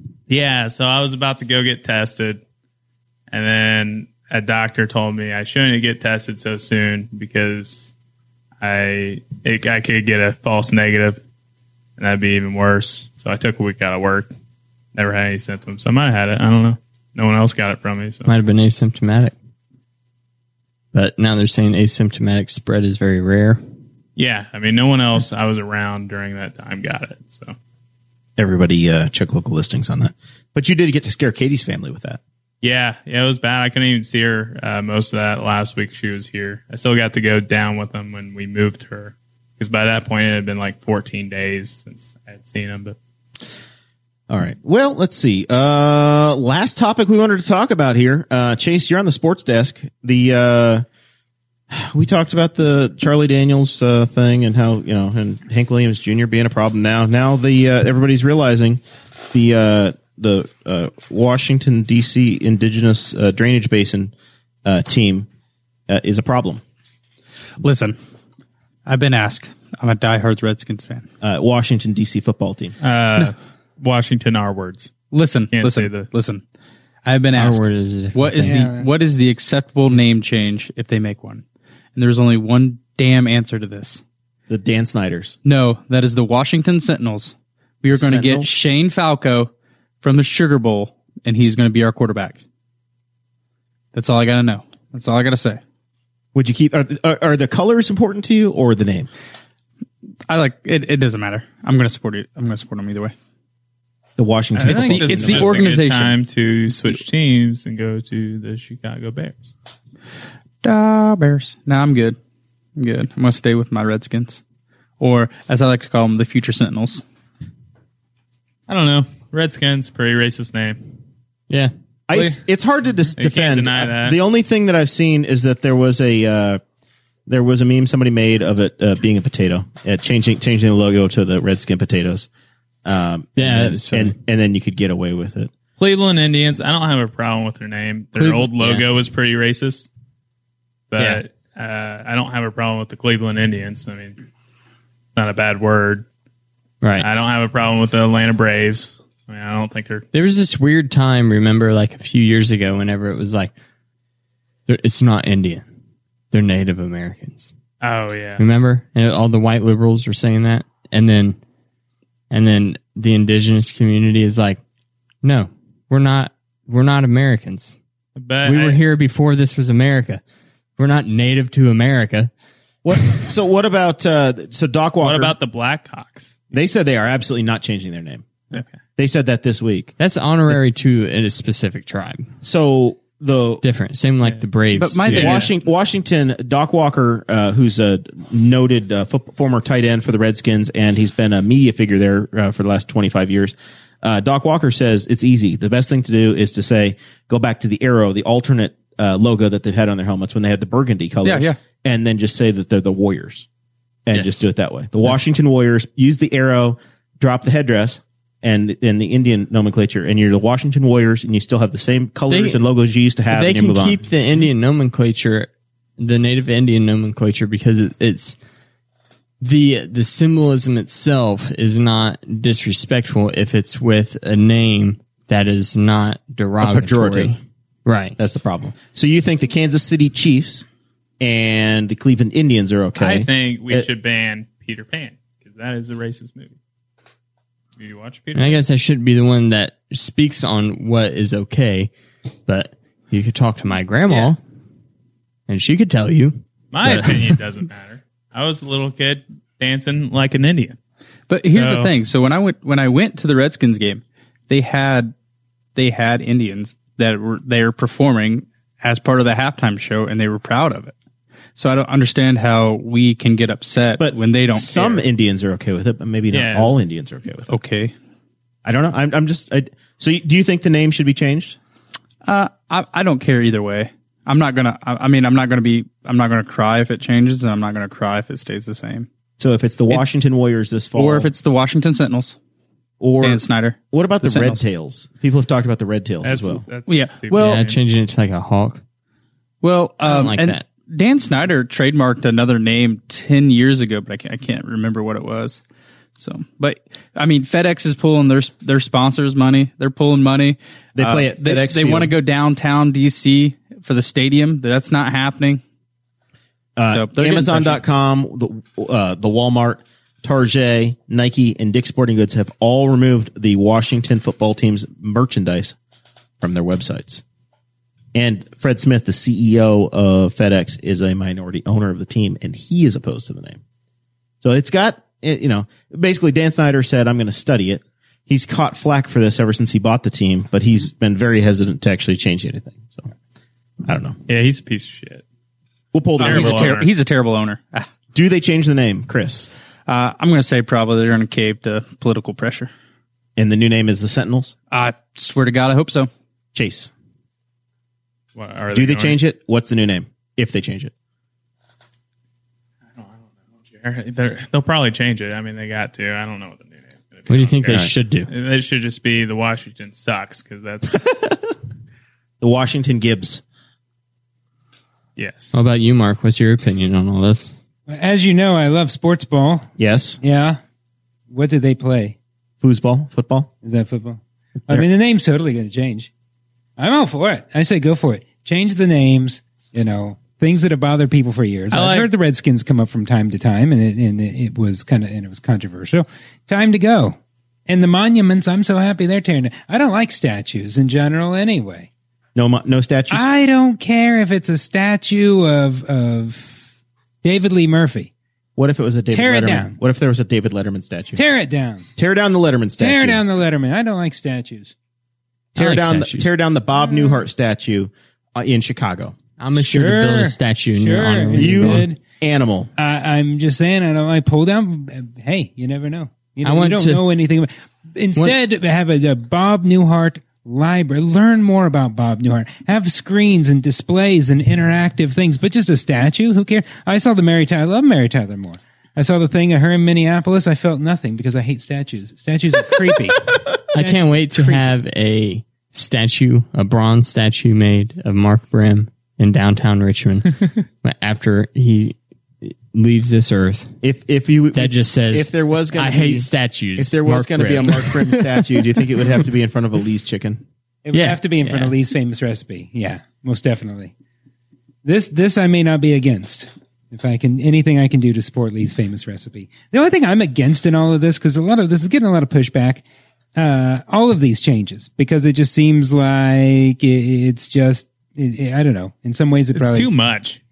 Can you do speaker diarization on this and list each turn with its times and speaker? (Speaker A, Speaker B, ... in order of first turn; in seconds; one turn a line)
Speaker A: 0.3-2.4
Speaker A: 3.3-7.9
Speaker A: 8.6-11.2
Speaker A: 12.0-14.3
Speaker A: 14.9-18.3
Speaker B: 18.3-19.3
Speaker B: 20.9-23.6
Speaker A: 24.1-27.5
Speaker C: 28.4-32.2
Speaker A: 32.6-43.0
Speaker C: 44.3-50.8
Speaker C: 51.7-58.8
Speaker C: 59.3-64.1
Speaker C: 64.6-65.3
Speaker C: 65.9-66.6
Speaker D: 67.6-68.0
Speaker D: 68.8-71.0
Speaker C: 71.2-72.7
Speaker A: 72.8-74.9
Speaker D: 75.1-76.4
Speaker A: 75.5-76.1
Speaker D: 77.0-81.4
Speaker B: 77.3-78.7
Speaker E: 78.4-78.9
Speaker D: 82.0-84.0
Speaker C: 84.5-85.3
Speaker D: 85.4-92.4
Speaker C: 87.9-88.5
Speaker D: 93.9-95.6
Speaker C: 96.3-99.1
Speaker D: 100.3-103.1
Speaker C: 104.2-105.7
Speaker A: 104.5-109.5
Speaker D: 104.6-106.1
Speaker D: 110.6-112.2
Speaker D: 112.8-114.4
Speaker D: 115.0-117.0
Speaker A: 118.7-120.8
Speaker C: 122.1-126.6
Speaker A: 122.1-122.4
Speaker A: 123.2-124.2
Speaker C: 127.3-132.3
Speaker C: 132.8-135.5
Speaker B: 133.4-134.2
Speaker A: 135.8-139.9
Speaker B: 138.2-138.8
Speaker A: 140.9-144.2
Speaker A: 145.2-146.0
Speaker B: 146.8-147.1
Speaker A: 147.0-150.1
Speaker B: 150.1-153.5
Speaker B: 154.7-155.6
Speaker B: 156.3-157.5
Speaker A: 157.8-158.4
Speaker B: 158.4-161.4
Speaker B: 162.3-164.6
Speaker B: 165.2-167.8
Speaker A: 168.2-168.8
Speaker B: 168.4-170.2
Speaker B: 170.8-172.3
Speaker C: 172.8-175.3
Speaker A: 175.0-176.5
Speaker C: 176.5-178.3
Speaker C: 179.0-179.9
Speaker B: 180.0-182.3
Speaker C: 182.4-183.6
Speaker B: 183.6-185.4
Speaker D: 184.7-185.5
Speaker C: 185.1-203.4
Speaker A: 185.1-185.5
Speaker D: 201.2-201.6
Speaker C: 204.1-214.1
Speaker B: 204.1-204.4
Speaker B: 212.3-212.6
Speaker B: 213.3-218.3
Speaker B: 219.4-228.2
Speaker C: 226.6-227.4
Speaker C: 228.2-230.7
Speaker C: 231.2-233.9
Speaker A: 233.0-236.5
Speaker A: 237.8-238.6
Speaker B: 238.3-241.9
Speaker B: 242.5-244.4
Speaker B: 245.5-247.4
Speaker A: 246.7-250.8
Speaker D: 251.3-255.1
Speaker A: 251.5-251.9
Speaker D: 255.7-260.9
Speaker D: 261.6-265.0
Speaker C: 264.0-267.5
Speaker A: 266.3-266.8
Speaker D: 267.5-267.9
Speaker C: 268.6-271.6
Speaker D: 272.2-279.1
Speaker C: 279.4-281.3
Speaker D: 280.9-282.4
Speaker C: 283.0-286.6
Speaker D: 283.2-284.6
Speaker A: 286.2-287.8
Speaker D: 286.9-287.6
Speaker B: 287.4-288.8
Speaker D: 289.6-295.6
Speaker B: 290.0-290.6
Speaker D: 296.1-305.6
Speaker C: 300.9-302.1
Speaker C: 306.8-315.8
Speaker D: 306.9-307.8
Speaker C: 316.4-317.2
Speaker C: 318.1-323.6
Speaker C: 324.4-333.1
Speaker C: 333.8-334.2
Speaker A: 334.3-335.2
Speaker C: 335.9-336.8
Speaker D: 336.2-337.9
Speaker A: 336.2-336.9
Speaker C: 338.1-339.5
Speaker D: 339.9-342.7
Speaker C: 343.4-344.5
Speaker D: 344.7-346.1
Speaker C: 346.5-346.9
Speaker A: 348.4-349.2
Speaker C: 348.7-350.9
Speaker A: 353.7-361.0
Speaker B: 357.3-358.3
Speaker C: 362.4-363.4
Speaker A: 365.1-365.6
Speaker B: 365.5-367.5
Speaker E: 367.9-369.7
Speaker C: 369.8-370.2
Speaker E: 370.2-370.6
Speaker E: 371.3-372.1
Speaker C: 372.6-373.5
Speaker E: 373.6-376.1
Speaker E: 376.8-387.2
Speaker A: 381.7-382.1
Speaker E: 387.7-391.9
Speaker C: 392.3-393.3
Speaker E: 393.1-396.7
Speaker E: 397.2-398.1
Speaker C: 398.6-401.2
Speaker E: 399.1-399.7
Speaker E: 401.1-401.9
Speaker C: 402.0-403.2
Speaker E: 402.8-404.7
Speaker B: 405.6-406.2
Speaker C: 405.6-409.1
Speaker B: 409.4-411.9
Speaker E: 409.6-412.0
Speaker C: 411.3-412.7
Speaker E: 412.8-434.7
Speaker B: 416.4-417.0
Speaker B: 433.7-443.7
Speaker C: 443.8-450.4
Speaker B: 444.5-449.0
Speaker E: 450.8-453.9
Speaker B: 450.9-451.8
Speaker E: 454.8-462.8
Speaker E: 463.4-469.9
Speaker A: 469.5-470.4